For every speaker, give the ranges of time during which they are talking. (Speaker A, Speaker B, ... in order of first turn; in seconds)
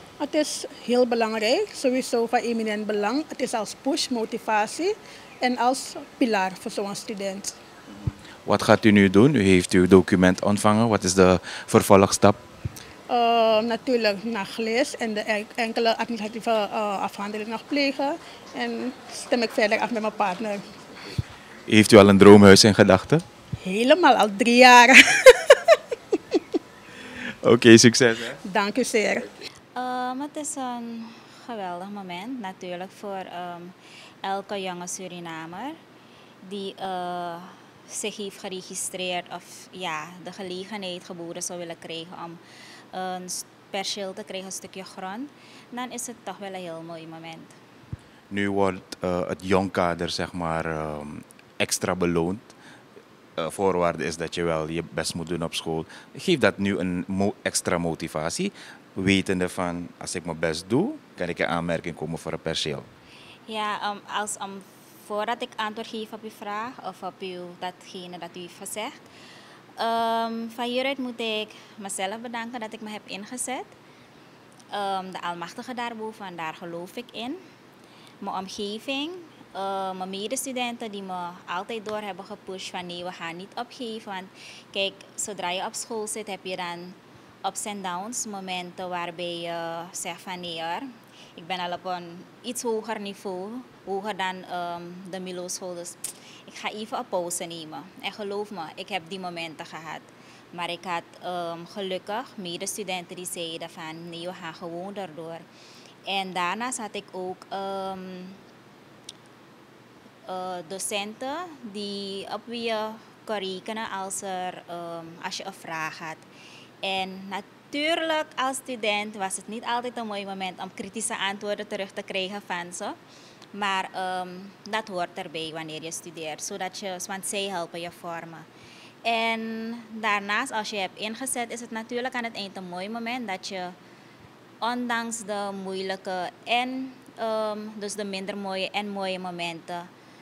Speaker A: 0.2-7.5, 13.1-20.6, 23.6-25.8, 28.4-29.4
Speaker B: 8.4-12.4, 21.7-23.2, 27.4-28.4, 48.3-52.5, 53.4-62.9
Speaker C: 29.7-35.8, 36.4-42.4, 42.9-47.5, 63.5-69.0, 69.8-73.7, 74.7-77.4, 78.2-105.4, 106.1-108.4, 110.3-116.2, 116.8-123.0, 123.5-128.5, 129.0-133.7, 134.6-139.9